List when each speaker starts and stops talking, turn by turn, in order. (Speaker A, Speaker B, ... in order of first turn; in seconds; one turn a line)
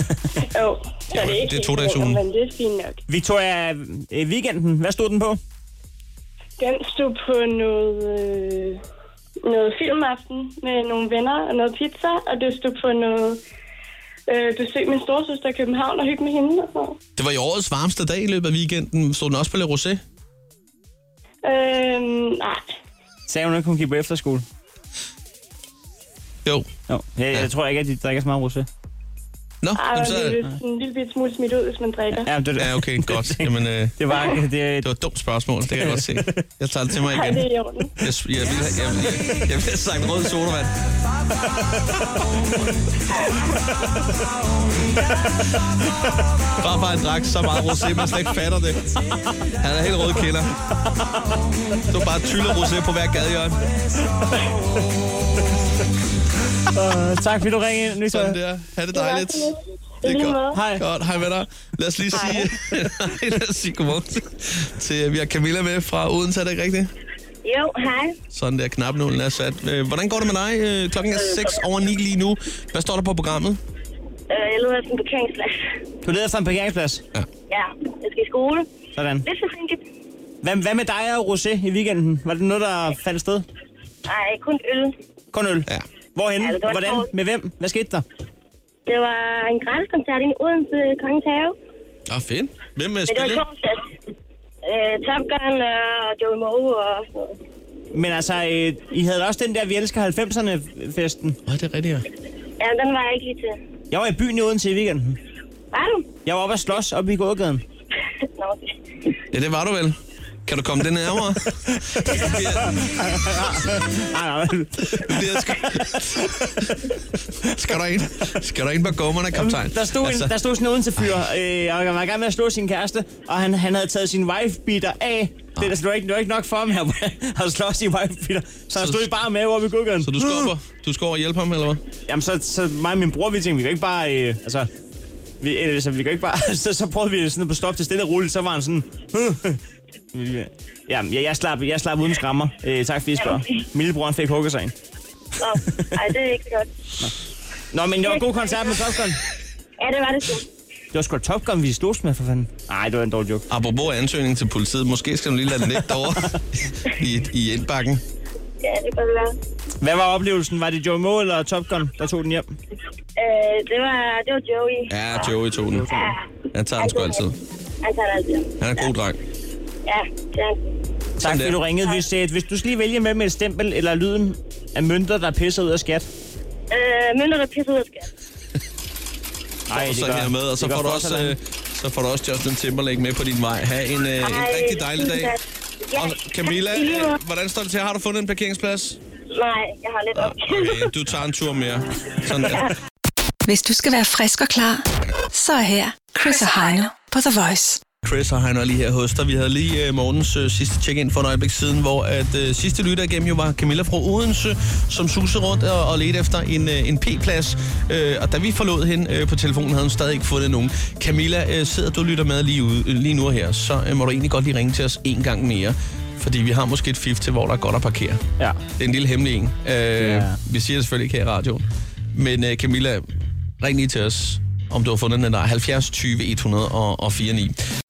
Speaker A: 0.4-3.0
Speaker B: 1.1-2.2
Speaker C: 3.1-5.4
Speaker A: 6.6-8.8
Speaker A: 9.4-13.4
Speaker A: 14.3-17.0
Speaker B: 17.2-20.0
Speaker A: 21.4-22.7
Speaker C: 23.3-24.4
Speaker C: 26.9-28.7
Speaker B: 29.6-30.4
Speaker A: 29.8-32.3
Speaker C: 32.2-34.9
Speaker B: 32.6-34.1
Speaker B: 34.8-37.5
Speaker C: 35.8-36.4
Speaker A: 37.1-37.9
Speaker B: 38.0-40.7
Speaker C: 41.4-42.2
Speaker C: 43.8-44.1
Speaker B: 46.6-48.9
Speaker B: 49.6-50.5
Speaker C: 50.8-51.8
Speaker B: 51.9-53.6
Speaker C: 56.7-58.4
Speaker B: 58.1-66.9
Speaker A: 58.9-60.6
Speaker C: 60.5-60.8
Speaker D: 67.4-68.2
Speaker B: 68.3-73.6
Speaker D: 74.3-75.7
Speaker C: 76.0-77.0
Speaker D: 77.5-78.7
Speaker C: 79.0-79.2
Speaker D: 79.2-79.8
Speaker C: 80.4-83.5
Speaker D: 84.1-85.0
Speaker C: 85.3-88.0
Speaker D: 86.4-87.1
Speaker D: 88.9-91.6
Speaker B: 92.1-93.5
Speaker D: 93.1-93.9
Speaker D: 94.7-97.4
Speaker C: 97.9-101.4
Speaker B: 101.5-102.1
Speaker D: 102.6-103.6
Speaker C: 103.9-105.2
Speaker D: 105.7-106.1
Speaker C: 106.3-107.6
Speaker D: 108.4-108.8
Speaker B: 109.3-113.5
Speaker C: 111.7-117.0
Speaker B: 114.9-120.3
Speaker C: 119.3-130.5
Speaker B: 128.8-129.1
Speaker B: 130.0-131.8
Speaker C: 132.1-134.7
Speaker C: 135.4-139.6
Speaker C: 140.1-144.7
Speaker D: 145.4-146.7
Speaker C: 147.7-149.2
Speaker D: 148.1-148.7
Speaker D: 149.8-150.5
Speaker C: 150.9-153.4
Speaker B: 153.5-158.0
Speaker D: 158.6-159.4
Speaker C: 159.8-162.5
Speaker D: 163.2-164.9
Speaker B: 164.9-165.9
Speaker C: 165.8-166.1
Speaker D: 165.9-166.2
Speaker B: 166.5-167.4
Speaker D: 166.8-168.7
Speaker B: 168.6-169.2
Speaker D: 169.9-170.7
Speaker C: 171.2-176.1
Speaker B: 171.2-171.6
Speaker D: 176.7-178.1
Speaker C: 179.7-181.3
Speaker B: 179.7-185.4
Speaker D: 184.2-187.2
Speaker B: 185.9-189.0
Speaker D: 189.3-190.9
Speaker B: 190.2-192.7
Speaker E: 193.4-197.8
Speaker B: 198.0-218.2
Speaker B: 218.8-223.1
Speaker C: 220.0-220.4
Speaker B: 223.6-227.6